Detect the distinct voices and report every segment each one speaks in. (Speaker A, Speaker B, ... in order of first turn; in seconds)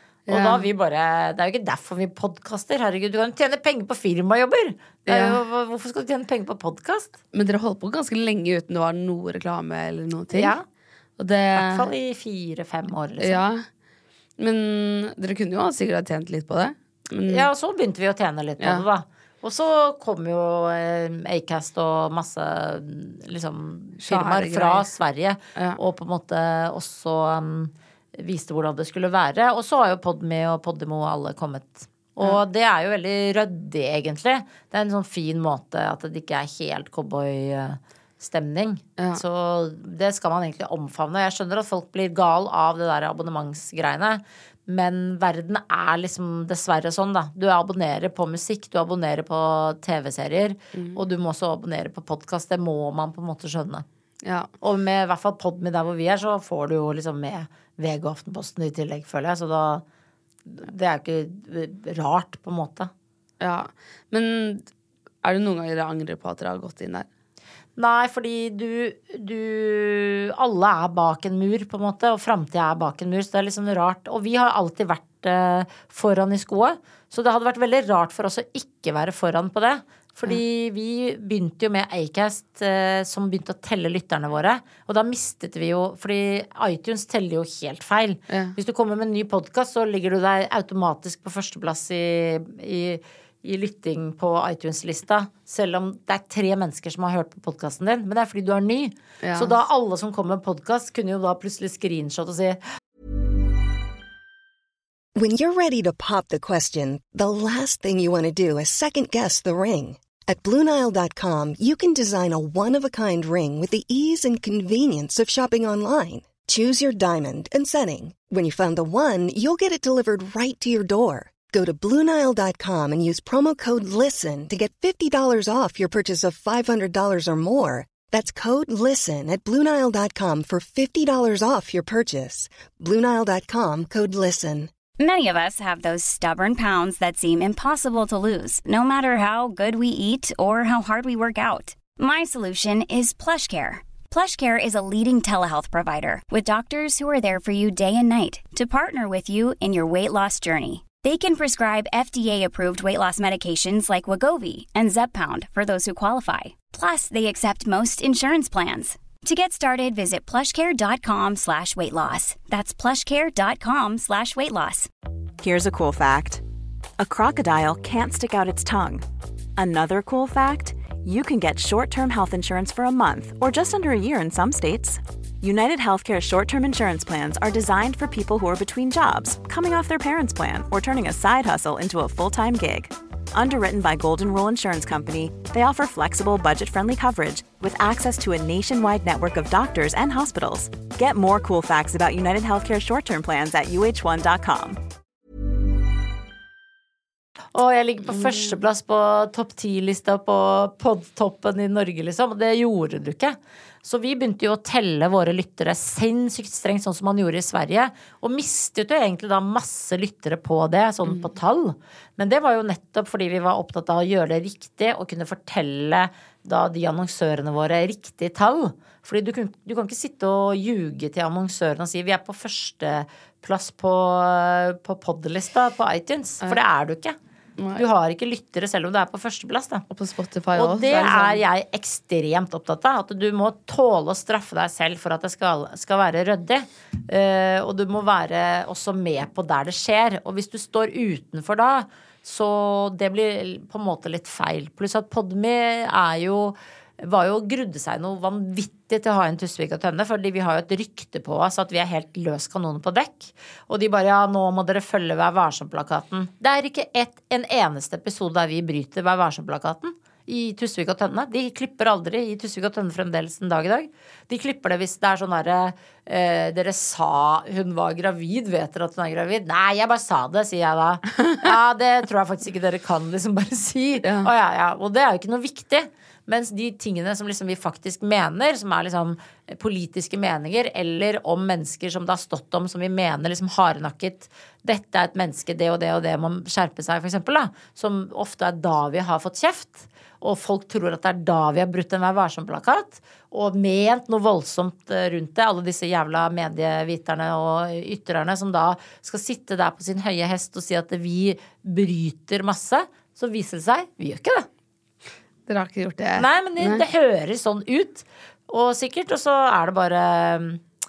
Speaker A: 0.3-0.7, 5.1-5.4, 7.3-10.6, 11.2-11.9, 13.2-13.7, 14.4-17.5, 18.6-18.9, 24.0-24.9, 50.7-51.0, 54.2-54.5, 63.4-64.7, 65.2-67.1, 88.3-88.6, 99.2-99.5, 198.2-198.5, 227.6-227.8, 229.9-231.4, 274.0-274.3, 305.5-306.8
Speaker B: 0.3-7.2, 10.3-10.6, 11.6-13.4, 17.3-53.9, 54.6-59.8, 60.5-62.9, 67.8-102.6, 197.6-227.2, 227.8-229.8, 230.6-304.5, 306.2-310.6
Speaker C: 105.2-134.7
Speaker D: 135.0-164.9
Speaker E: 165.4-166.4, 167.0-194.8